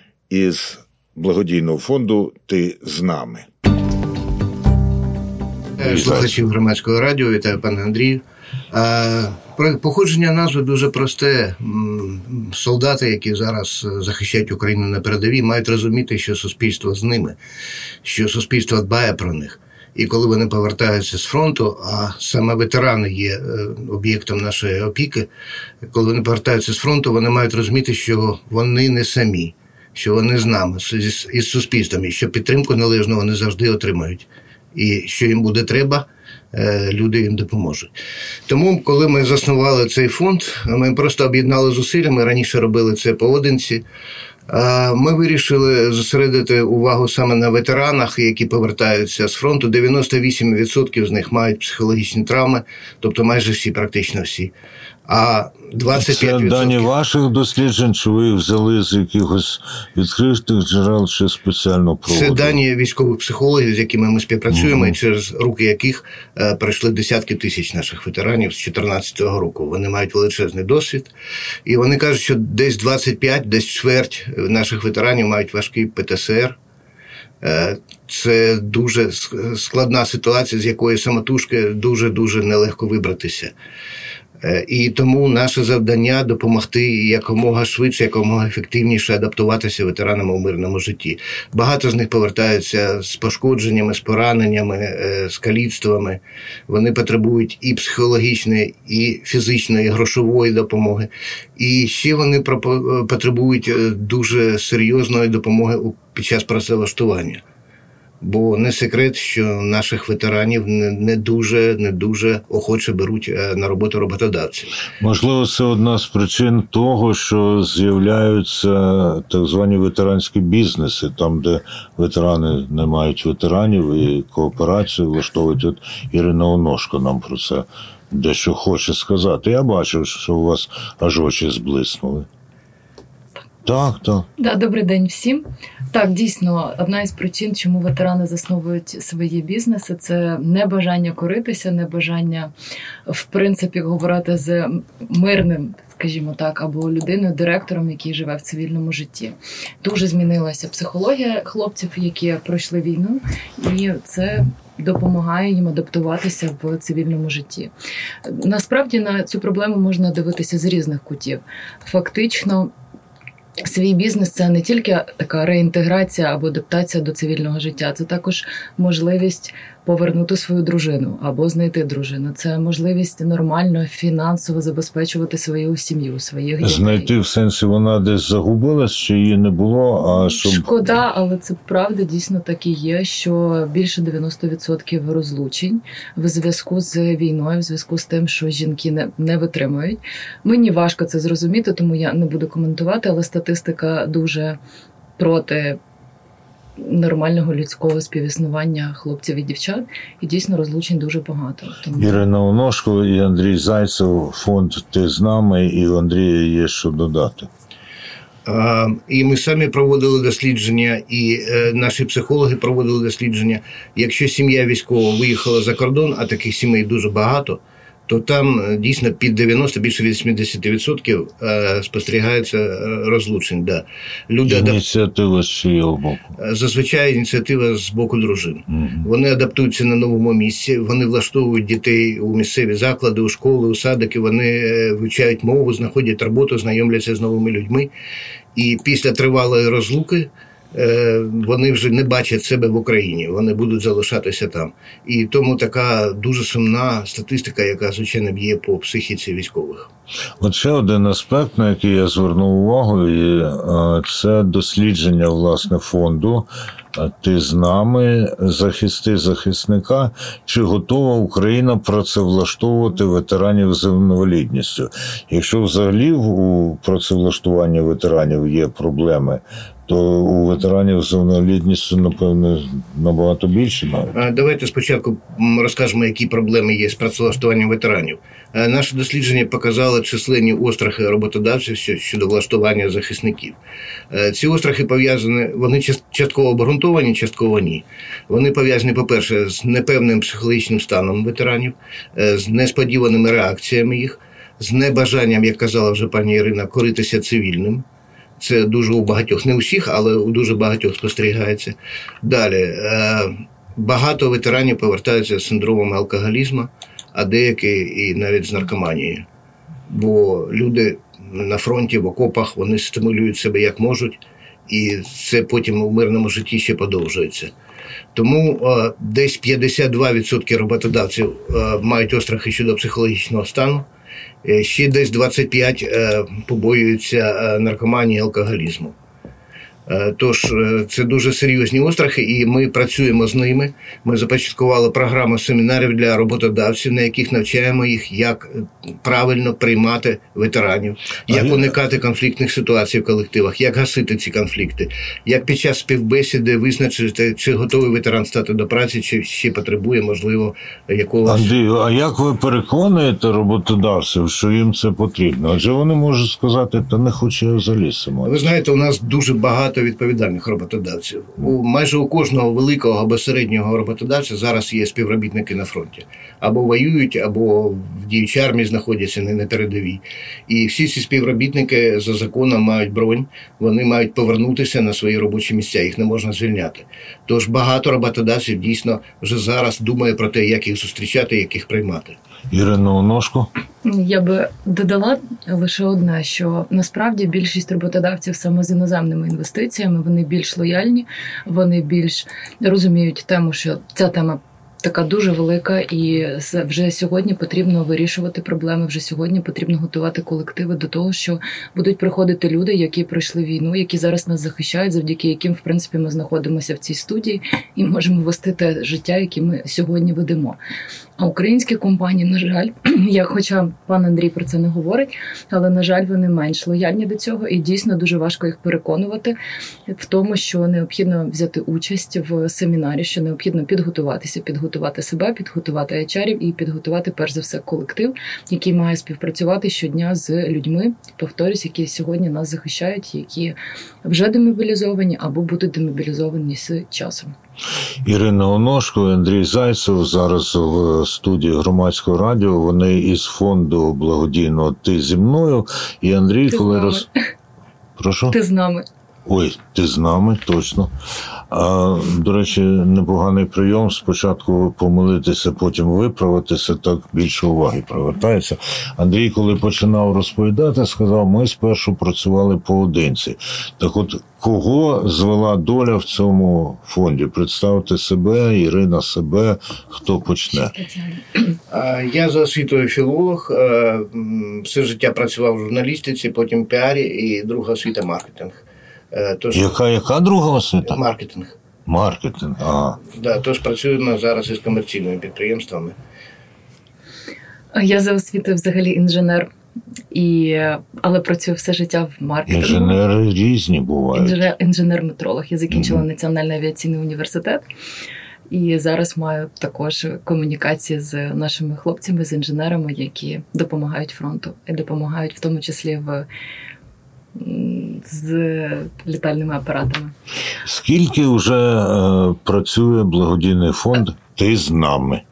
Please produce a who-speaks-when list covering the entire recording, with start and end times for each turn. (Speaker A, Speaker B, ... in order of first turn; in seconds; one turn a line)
Speaker A: 0.3-3.5
Speaker A: 5.8-6.4
Speaker B: 5.8-17.4
Speaker B: 18.0-25.3
Speaker B: 25.8-37.9
Speaker B: 38.5-43.8
Speaker B: 44.5-54.5
Speaker B: 55.0-56.9
Speaker A: 55.9-62.5
Speaker B: 62.0-71.1
Speaker A: 64.5-64.9
Speaker B: 71.7-76.6
Speaker B: 77.4-83.5
Speaker B: 84.4-107.4
Speaker B: 108.2-114.8
Speaker A: 115.0-132.3
Speaker A: 133.6-134.3
Speaker C: 134.4-142.5
Speaker C: 143.1-157.7
Speaker C: 158.2-162.7
Speaker C: 163.6-177.1
Speaker A: 176.6-181.0
Speaker C: 180.1-194.6
Speaker C: 195.2-195.8
Speaker C: 196.8-202.2
Speaker A: 201.9-207.5
Speaker B: 208.4-224.8
Speaker A: 224.4-226.3
Speaker B: 226.4-237.9
Speaker A: 228.7-229.1
Speaker B: 238.5-249.9
Speaker A: 250.4-274.1
Speaker B: 274.1-283.6
Speaker B: 284.1-297.8
Speaker B: 298.4-309.2
Speaker B: 309.9-317.5
Speaker B: 318.1-323.9
Speaker B: 324.4-328.9
Speaker B: 329.9-351.5
Speaker A: 341.3-341.7
Speaker A: 351.2-358.4
Speaker B: 358.2-382.2
Speaker A: 382.5-383.5
Speaker C: 383.8-410.6
Speaker C: 411.2-419.3
Speaker C: 419.9-437.3
Speaker A: 438.0-447.1
Speaker C: 446.5-447.1
Speaker A: 448.0-448.4
Speaker C: 448.3-448.9
Speaker A: 449.2-450.9
Speaker A: 451.5-470.7
Speaker C: 470.5-471.5
Speaker B: 471.7-479.8
Speaker A: 479.5-481.0
Speaker B: 480.8-481.6
Speaker A: 481.9-483.0
Speaker B: 483.1-485.9
Speaker C: 487.7-489.5
Speaker C: 490.1-493.0
Speaker A: 492.5-494.4
Speaker C: 494.1-497.6
Speaker A: 495.7-496.0
Speaker C: 498.5-506.3
Speaker C: 507.3-510.1
Speaker A: 510.6-515.2